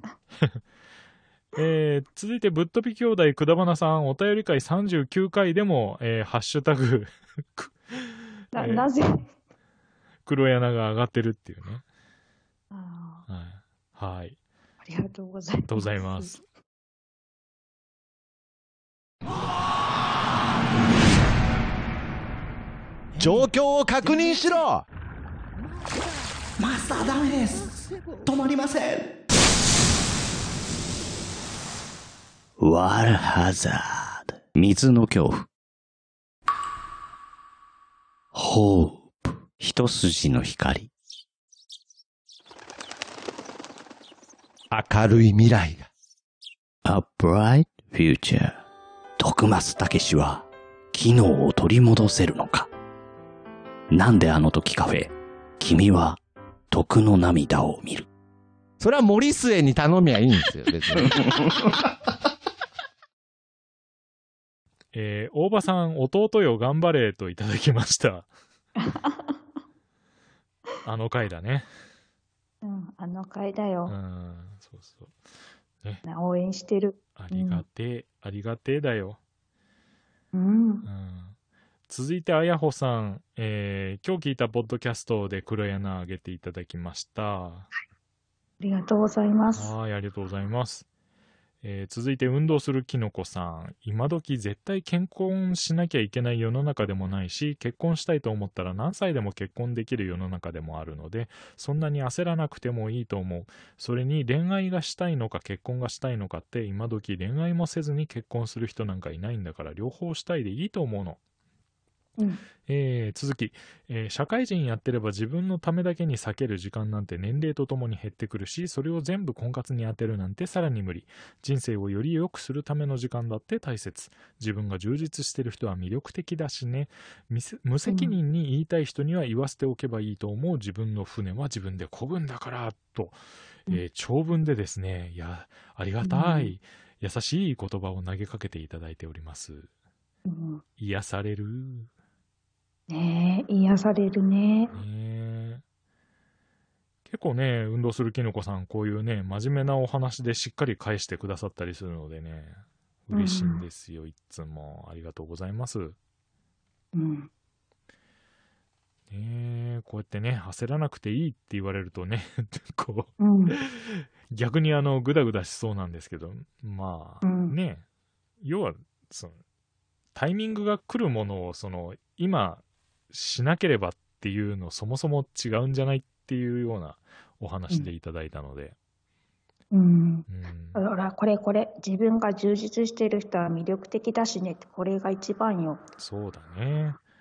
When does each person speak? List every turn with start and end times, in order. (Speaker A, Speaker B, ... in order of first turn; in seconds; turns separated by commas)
Speaker A: 1.6-8.9, Speaker B: 8.5-9.3, Speaker A: 10.3-11.8, Speaker B: 12.7-13.3, Speaker A: 13.3-14.4, Speaker B: 14.8-16.4, Speaker A: 15.7-16.4, Speaker C: 23.2-23.4, Speaker D: 23.2-24.9, Speaker C: 26.6-29.2, Speaker E: 32.6-35.5, Speaker E: 38.3-40.9, Speaker D: 44.7-45.9, Speaker E: 46.9-48.6, Speaker E: 49.2-52.7, Speaker E: 53.9-56.2, Speaker E: 56.7-58.1, Speaker D: 58.8-61.5, Speaker A: 64.9-68.3, Speaker B: 68.8-69.2, Speaker A: 70.8-71.7, Speaker B: 72.6-74.0, Speaker A: 73.9-75.1, Speaker B: 76.0-77.6, Speaker A: 77.2-79.2, Speaker B: 80.3-80.9, Speaker A: 80.8-81.3, Speaker A: 81.9-87.7, Speaker B: 88.6-89.8, Speaker A: 89.5-90.9, Speaker A: 91.6-111.2, Speaker B: 112.2-112.4, Speaker A: 112.7-133.2, Speaker B: 127.9-128.2, Speaker A: 133.7-139.7, Speaker B: 136.0-136.6, Speaker B: 140.3-140.6, Speaker A: 140.8-141.9, Speaker B: 142.9-144.8, Speaker A: 144.7-145.6, Speaker A: 147.1-156.0, Speaker B: 153.1-153.7, Speaker B: 156.9-157.3, Speaker A: 159.1-167.8, Speaker B: 163.2-163.6, Speaker B: 167.2-167.6, Speaker A: 168.4-169.4, Speaker A: 170.2-178.8, Speaker B: 179.7-185.8, Speaker A: 180.3-180.8, Speaker A: 186.0-187.0